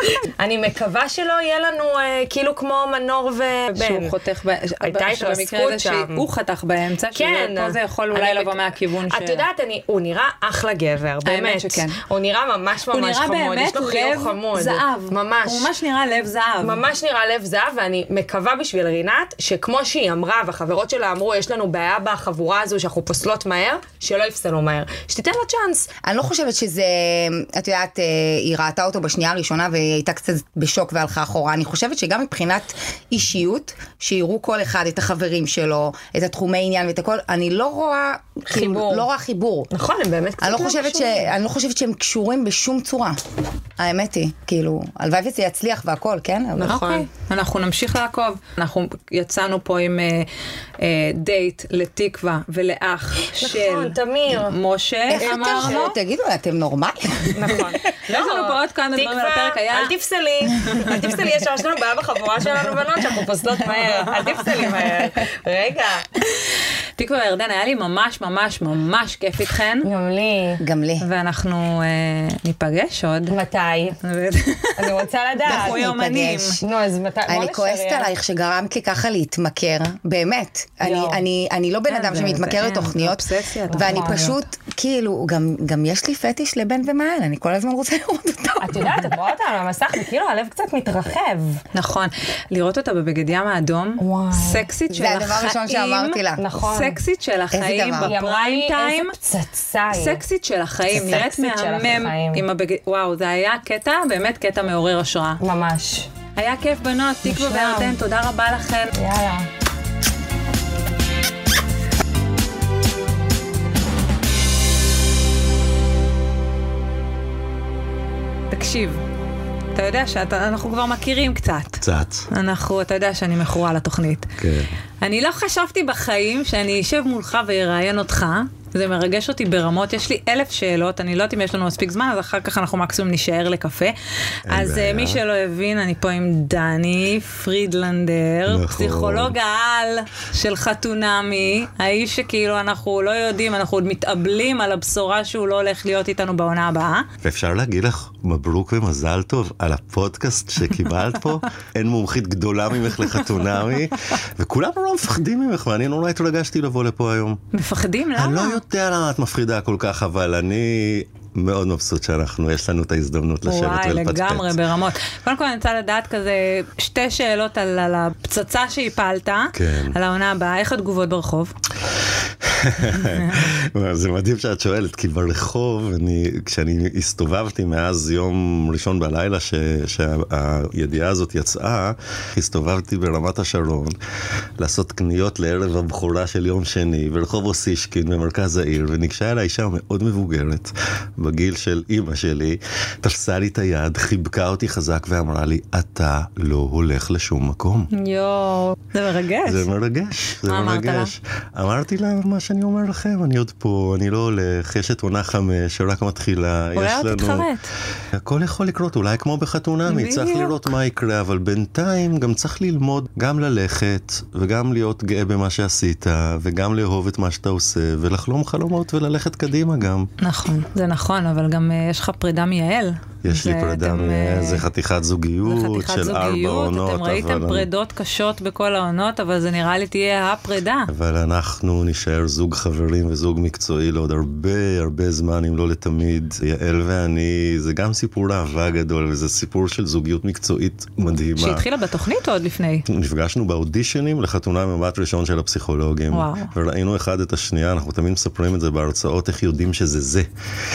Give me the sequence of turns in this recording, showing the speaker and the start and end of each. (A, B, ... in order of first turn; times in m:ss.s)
0:00.2-0:04.1 A
0:03.8-0:09.4 B
0:04.8-0:06.2 A
0:07.1-0:15.7 A
0:11.2-0:12.0 B
0:12.9-0:16.8 B
0:16.6-0:25.9 A
0:26.0-0:39.7 C
0:38.5-0:39.1 A
0:39.7-0:41.3 A
0:40.4-0:43.2 C
0:43.8-0:46.8 C
0:46.5-0:47.1 A
0:46.7-0:56.0 B
0:53.4-0:54.6 A
0:55.1-0:57.7 C
0:55.1-0:55.9 A
0:57.3-1:06.1 A
0:58.1-0:59.9 B
1:07.0-1:09.9 B
1:09.8-1:10.6 A
1:10.6-1:11.0 C
1:11.0-1:13.4 B
1:13.3-1:14.0 A
1:14.0-1:16.6 B
1:14.8-1:15.8 A
1:15.4-1:16.6 C
1:16.6-1:18.1 A
1:17.3-1:29.1 C
1:20.8-1:21.2 A
1:21.9-1:24.3 B
1:23.7-1:24.4 A
1:28.6-1:31.6 A
1:31.7-1:39.1 B
1:34.0-1:34.7 A
1:34.9-1:36.4 C
1:36.4-1:37.0 A
1:37.5-1:38.1 C
1:38.0-1:40.2 A
1:39.9-1:45.4 B
1:40.9-1:42.4 A
1:45.4-1:46.1 A
1:46.4-1:48.9 B
1:47.2-1:48.0 A
1:48.9-1:49.5 A
1:58.5-1:59.0 B
1:59.7-2:04.3 B
2:01.8-2:02.3 D
2:04.4-2:04.7 D
2:05.0-2:13.9 B
2:14.5-2:15.2 D
2:14.5-2:27.1 B
2:18.5-2:19.3 D
2:27.2-2:37.4 D
2:37.5-2:38.6 B
2:38.1-2:44.6 D
2:43.4-2:51.5 B
2:49.5-2:50.0 D
2:52.4-3:04.0 D
3:04.6-3:17.9 D
3:17.9-3:19.7 B
3:19.4-3:27.5 D
3:20.4-3:21.1 B
3:26.7-3:27.7 B
3:28.2-3:40.1 D
3:29.9-3:30.7 B
3:40.2-3:44.6 B
3:43.2-3:47.7 D
3:45.4-3:50.9 B
3:50.9-4:01.6 D
4:01.4-4:02.8 B
4:02.9-4:10.3 D
4:06.1-4:06.5 B